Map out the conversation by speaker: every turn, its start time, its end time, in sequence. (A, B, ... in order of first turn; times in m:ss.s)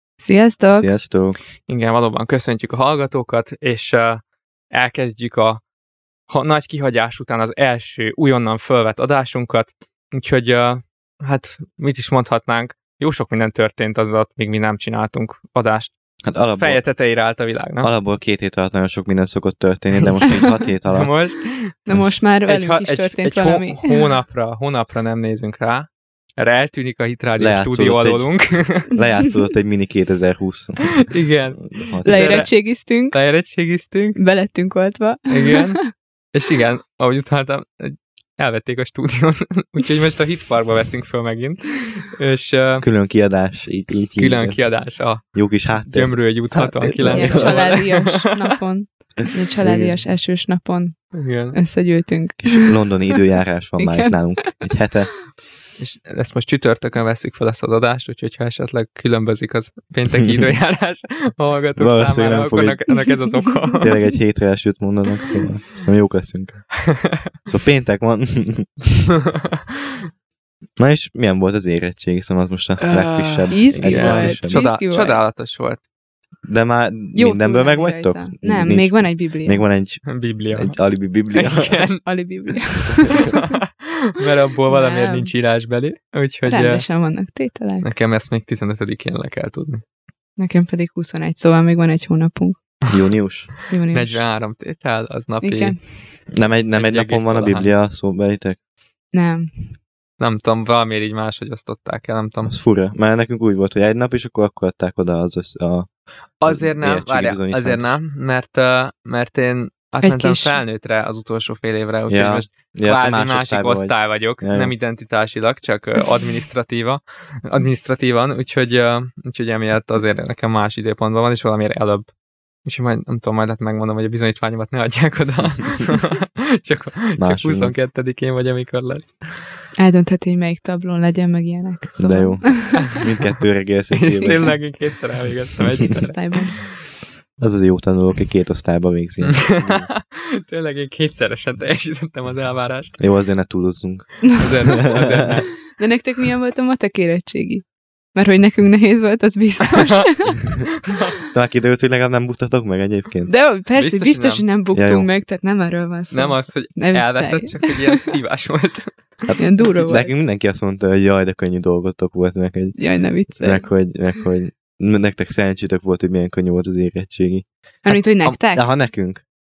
0:00.2-0:00.9 A
0:00.7-0:01.4 B
0:01.7-0:05.6 C
0:06.3-0:15.9 C
0:16.2-0:16.8 B
0:16.5-0:17.9 C
0:17.8-0:21.1 B
0:20.9-0:21.7 C
0:21.8-0:24.1 A
0:22.5-0:28.9 C
0:27.4-0:28.3 B
0:28.9-0:32.5 B
0:31.0-0:34.2 C
0:32.0-0:33.2 A
0:34.2-0:35.9 A
0:35.3-0:35.8 C
0:36.3-0:42.9 C
0:42.8-0:47.8 B
0:44.2-0:48.5 C
0:47.1-0:53.2 A
0:49.6-0:50.0 B
0:51.1-0:51.6 C
0:52.4-0:55.1 B
0:53.8-0:54.6 A
0:55.8-1:03.9 C
1:00.1-1:00.4 B
1:01.8-1:02.8 B
1:03.1-1:03.7 A
1:03.7-1:06.7 B
1:06.9-1:07.2 C
1:07.4-1:09.0 B
1:10.8-1:14.6 B
1:12.8-1:15.8 C
1:13.5-1:15.2 A
1:16.4-1:21.9 B
1:17.1-1:19.6 A
1:20.0-1:20.8 C
1:21.3-1:22.0 C
1:22.0-1:23.5 A
1:23.2-1:26.8 C
1:24.7-1:25.3 A
1:26.4-1:27.9 A
1:27.8-1:29.8 C
1:30.4-1:32.6 A
1:32.9-1:33.5 B
1:33.7-1:34.2 A
1:33.9-1:35.8 C
1:35.4-1:35.8 A
1:36.3-1:38.6 B
1:36.7-1:37.7 C
1:39.1-1:39.6 A
1:40.2-1:42.5 C
1:42.4-1:45.9 B
1:46.4-2:02.1 C
1:46.4-1:48.0 B
1:50.0-1:50.6 A
1:52.1-1:54.7 B
2:02.6-2:09.2 C
2:07.2-2:07.7 B
2:09.8-2:12.8 A
2:12.0-2:14.7 B
2:13.9-2:16.2 C
2:15.9-2:16.6 A
2:17.4-2:19.9 B
2:19.2-2:23.0 C
2:23.0-2:25.4 B
2:24.4-2:25.5 C
2:25.7-2:30.6 A
2:29.7-2:30.1 C
2:30.6-2:31.2 C
2:31.3-2:33.3 B
2:33.3-2:38.2 A
2:33.8-2:34.4 C
2:34.7-2:35.1 B
2:36.1-2:39.1 C
2:39.3-2:42.8 B
2:39.4-2:40.1 A
2:42.8-2:43.6 A
2:43.3-2:47.4 B
2:47.8-2:48.6 A
2:47.9-2:48.4 C
2:48.5-2:49.2 B